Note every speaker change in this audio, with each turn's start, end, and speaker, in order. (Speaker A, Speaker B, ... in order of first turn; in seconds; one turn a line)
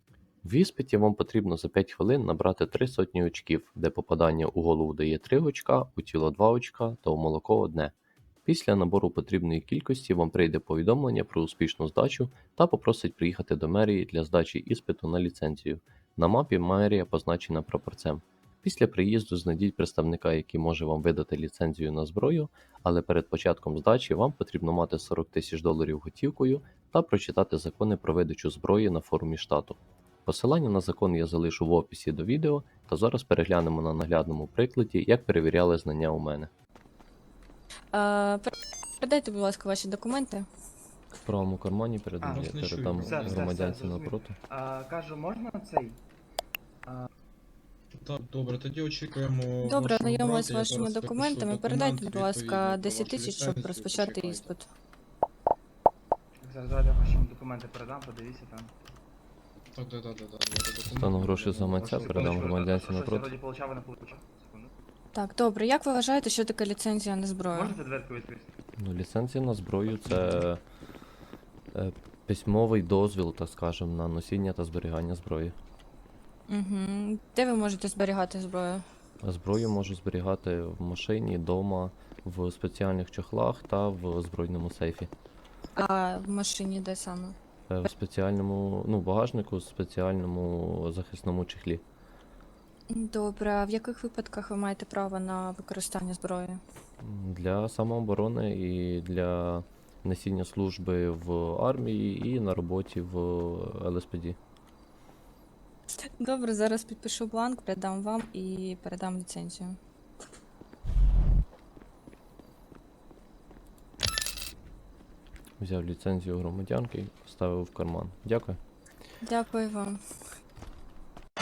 Speaker A: 0.4-7.9
Speaker A: 8.5-36.5
Speaker B: 37.9-40.5
Speaker A: 41.2-44.4
Speaker C: 42.2-46.0
Speaker D: 42.3-43.8
Speaker D: 48.0-54.5
Speaker B: 49.6-54.7
Speaker C: 56.4-58.7
Speaker D: 59.7-62.5
Speaker A: 60.9-63.4
Speaker C: 61.9-64.7
Speaker B: 65.1-67.8
Speaker C: 67.5-68.5
Speaker A: 68.8-70.6
Speaker C: 70.1-70.4
Speaker A: 71.7-75.5
Speaker B: 76.5-78.8
Speaker A: 79.2-85.1
Speaker B: 85.8-87.9
Speaker A: 87.7-91.8
Speaker B: 92.9-96.6
Speaker A: 97.0-104.4
Speaker B: 106.2-109.8
Speaker A: 115.6-118.6
Speaker B: 119.2-120.0